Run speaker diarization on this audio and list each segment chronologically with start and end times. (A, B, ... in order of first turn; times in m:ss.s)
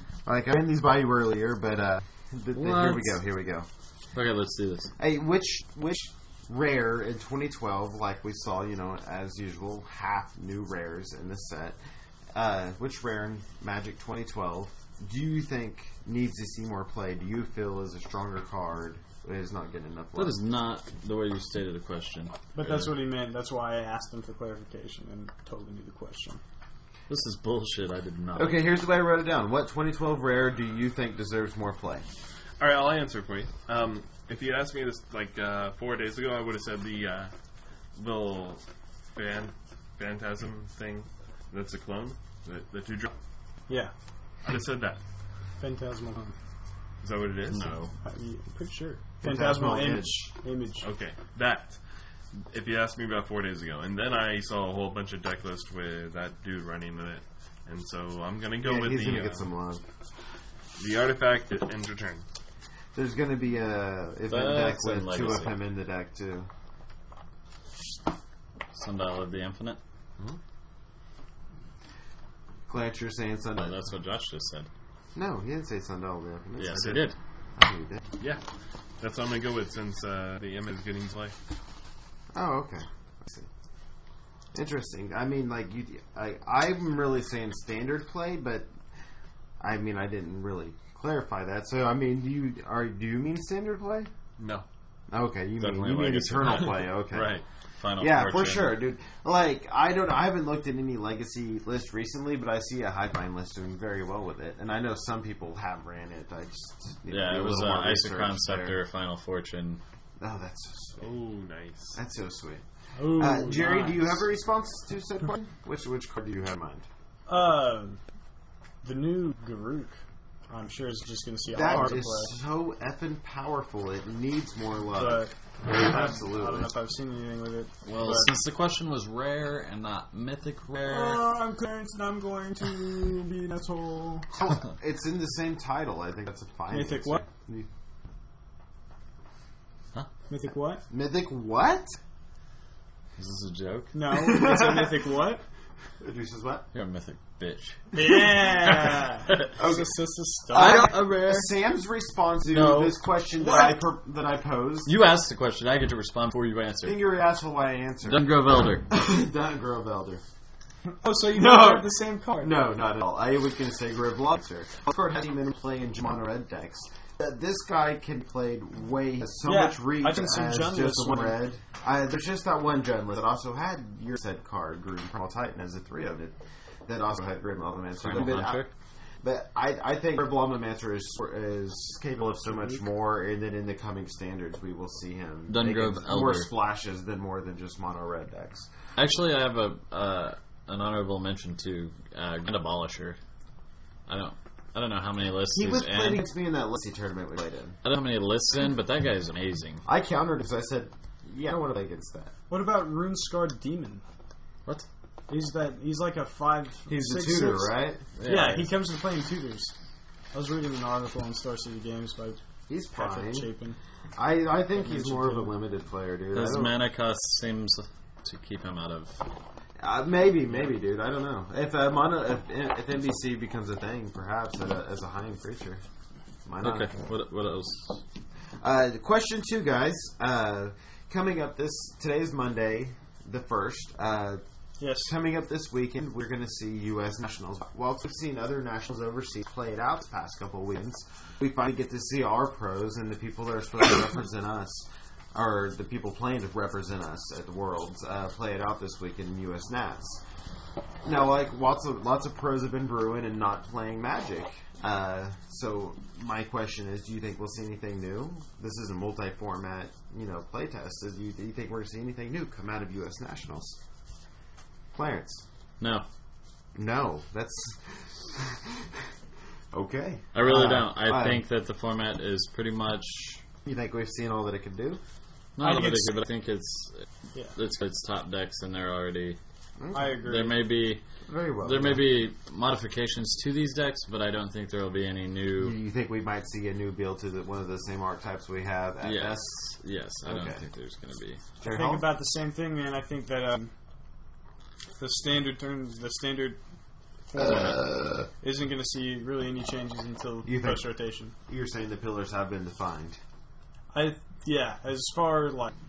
0:00.2-0:03.7 A
0:02.5-0:03.2 B
0:04.1-0:04.9 B
0:05.0-0:11.8 A
0:12.3-0:20.4 A
0:20.1-0:22.9 B
0:22.5-0:26.4 C
0:27.1-0:28.6 B
0:28.4-0:32.0 A
0:32.6-0:37.3 D
0:38.0-0:38.6 D
0:39.1-0:43.1 D
0:44.4-0:45.0 D
0:45.6-0:46.3 C
0:47.0-0:47.8 D
0:47.5-0:47.9 B
0:48.0-0:50.9 C
0:49.2-0:50.3 A
0:50.8-0:51.8 D
0:52.3-0:59.4 D
0:58.6-0:59.8 A
1:00.8-1:02.2 D
1:02.9-1:06.5 A
1:04.3-1:05.6 B
1:08.7-1:09.8 B
1:12.7-1:13.8 A
1:13.6-1:14.7 B
1:15.1-1:18.1 A
1:16.6-1:17.2 B
1:19.0-1:21.3 D
1:22.3-1:23.5 A
1:24.5-1:28.7 A
1:29.6-1:34.1 A
1:34.4-1:34.6 D
1:35.1-1:37.3 A
1:35.6-1:36.9 B
1:37.1-1:37.4 D
1:37.8-1:38.8 B
1:38.0-1:48.8 A
1:47.1-1:49.8 B
1:50.2-1:51.1 A
1:51.0-1:52.0 D
1:51.9-1:56.8 A
1:53.0-1:54.2 C
1:57.3-1:58.0 C
1:58.8-2:00.0 C
2:00.5-2:02.3 C
2:01.5-2:06.7 A
2:04.9-2:08.3 C
2:07.8-2:11.2 B
2:10.8-2:14.2 C
2:14.3-2:17.7 A
2:16.7-2:17.2 C
2:20.3-2:20.8 C
2:20.9-2:22.0 A
2:23.2-2:23.9 B
2:23.9-2:25.4 C
2:24.1-2:25.0 A
2:26.0-2:26.7 A
2:26.7-2:28.3 B
2:27.9-2:30.9 C
2:29.6-2:29.9 A
2:30.5-2:34.9 A
2:30.5-2:31.5 B
2:32.5-2:33.0 B
2:33.4-2:33.8 C
2:34.8-2:37.0 B
2:36.8-2:40.2 A
2:38.0-2:38.9 B
2:40.9-2:42.6 C
2:41.3-2:56.3 A
2:49.4-2:51.4 C
2:56.8-2:58.7 A
2:58.0-2:58.7 B
2:59.2-3:08.7 A
3:05.5-3:06.5 B
3:09.0-3:13.2 B
3:14.1-3:16.2 B
3:15.5-3:17.8 A
3:17.8-3:19.8 B
3:19.8-3:22.3 A
3:22.5-3:24.0 C
3:25.3-3:29.7 C
3:26.9-3:28.1 A
3:28.2-3:28.7 B
3:30.3-3:32.4 C
3:32.7-3:33.5 A
3:32.9-3:33.8 C
3:34.2-3:36.8 A
3:34.8-3:35.5 C
3:36.3-3:39.2 B
3:39.8-3:45.8 A
3:46.4-3:47.0 A
3:46.6-3:48.0 B
3:48.6-3:54.4 A
3:54.8-3:55.1 C
3:55.0-4:10.2 A
4:11.0-4:23.8 A
4:24.9-4:25.4 A
4:25.8-4:26.0 B
4:26.7-4:28.8 A
4:29.7-4:31.4 A
4:30.3-4:33.4 B
4:33.6-4:35.0 A
4:35.6-4:39.4 B
4:35.6-4:36.2 C
4:39.8-4:40.2 A
4:39.9-4:40.6 C
4:40.2-4:41.0 B
4:41.3-4:42.1 A
4:41.6-4:45.8 B
4:45.6-4:49.6 A
4:49.0-4:51.4 B
4:50.2-4:50.6 A
4:51.6-4:52.1 A
4:51.6-4:53.7 C
4:55.0-4:56.6 C
4:57.3-4:57.8 C
4:57.4-4:58.3 A
4:57.4-4:57.7 B
4:58.4-5:01.3 C
5:00.4-5:00.9 A
5:01.5-5:03.2 A
5:03.9-5:05.7 C